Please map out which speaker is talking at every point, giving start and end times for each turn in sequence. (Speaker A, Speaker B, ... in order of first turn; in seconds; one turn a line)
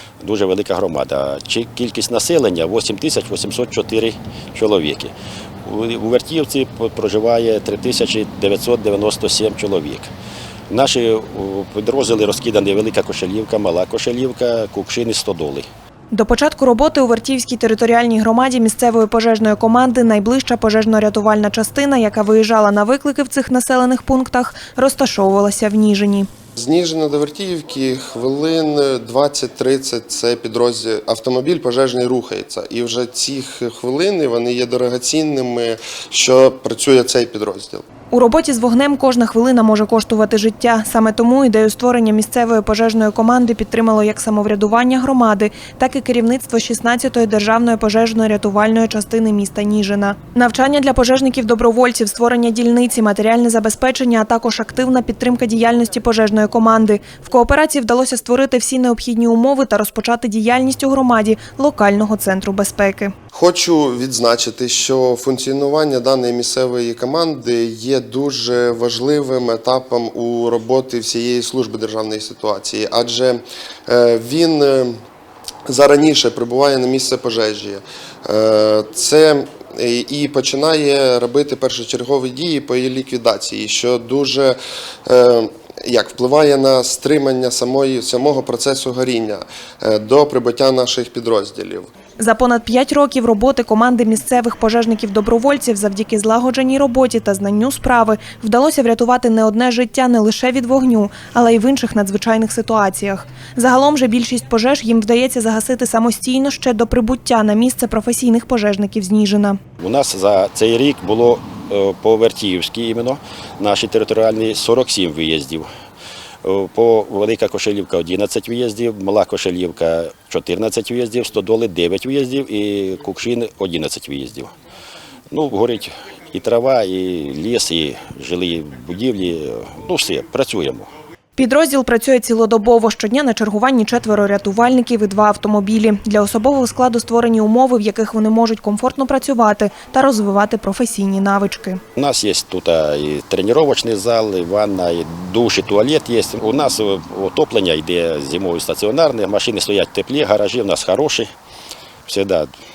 Speaker A: 0.2-10.1
Speaker A: 10.7-15.7
Speaker B: 16.1-26.3
Speaker C: 26.6-37.8
Speaker B: 38.1-63.1
Speaker C: 63.3-75.0
Speaker C: 75.7-91.9
Speaker B: 92.2-109.6
Speaker A: 109.8-115.7
Speaker A: 116.4-124.5
Speaker A: 125.3-130.9
Speaker B: 131.4-141.8
Speaker A: 141.9-151.3
Speaker A: 152.1-152.5